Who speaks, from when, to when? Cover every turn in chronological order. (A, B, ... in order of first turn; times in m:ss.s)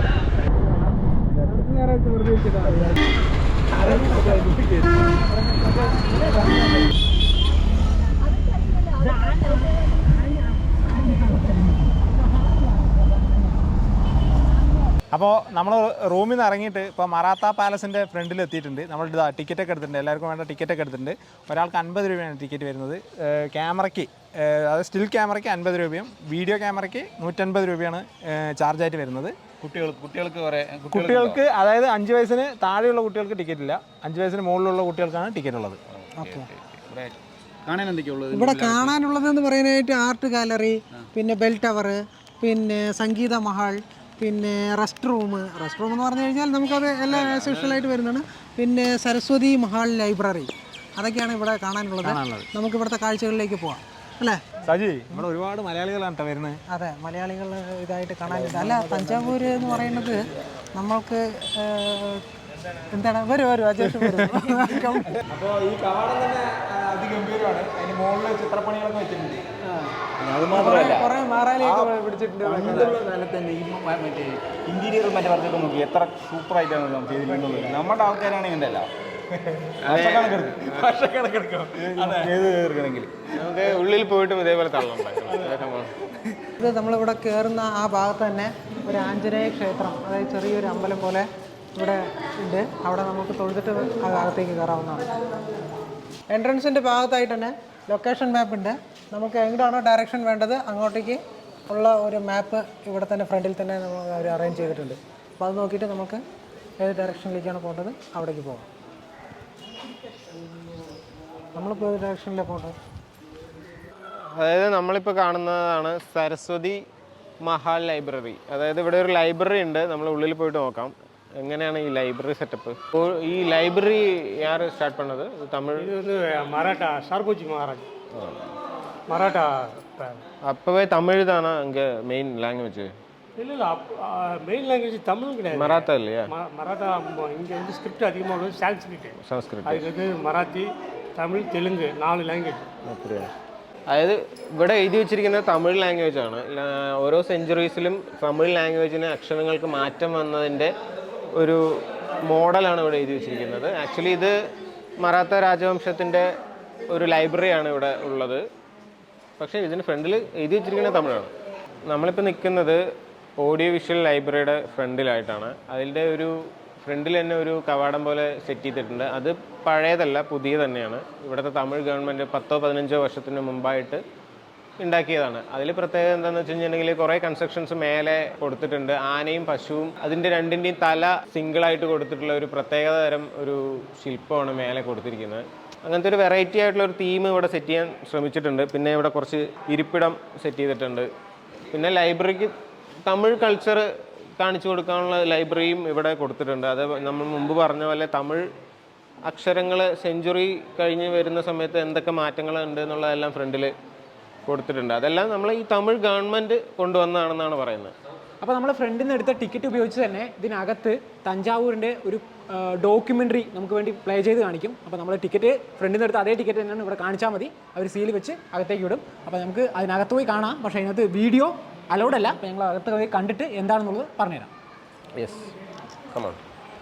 0:01.5-0:02.9 A
0:03.8-0:04.7 A
0:15.1-0:29.3 B
0:29.6-0:31.4 A
0:30.9-0:35.8 B
0:36.2-0:36.5 C
0:36.3-0:37.1 A
0:37.6-0:38.9 A
0:38.3-0:54.4 C
0:47.2-0:47.5 A
0:54.6-0:56.6 B
0:56.7-1:02.2 C
1:02.9-1:05.1 C
1:05.3-1:09.4 B
1:10.2-1:11.1 A
1:10.5-1:13.0 C
1:12.4-1:18.9 A
1:12.7-1:13.0 B
1:17.3-1:17.8 B
1:19.8-1:20.9 D
1:19.8-1:23.1 A
1:21.5-1:22.3 B
1:23.3-1:25.9 D
1:26.6-1:35.1 C
1:36.3-1:46.2 C
1:46.8-1:48.6 C
1:51.6-1:52.7 C
1:54.3-1:56.8 D
1:57.4-2:05.9 D
2:05.8-2:07.9 E
2:08.1-2:08.4 D
2:09.1-2:10.2 E
2:10.4-2:12.9 D
2:13.4-2:22.6 E
2:15.5-2:16.3 D
2:19.2-2:19.8 D
2:22.8-2:23.3 D
2:23.9-2:30.7 D
2:31.3-2:31.6 D
2:32.2-2:34.3 D
2:35.0-2:36.3 D
2:36.9-2:38.4 D
2:39.4-2:41.3 D
2:41.9-2:42.8 D
2:43.4-2:54.0 D
2:54.8-3:11.1 D
3:11.7-3:12.5 D
3:13.0-3:13.8 D
3:14.4-3:18.4 D
3:19.3-3:23.7 D
3:24.4-3:27.9 D
3:28.4-3:44.5 F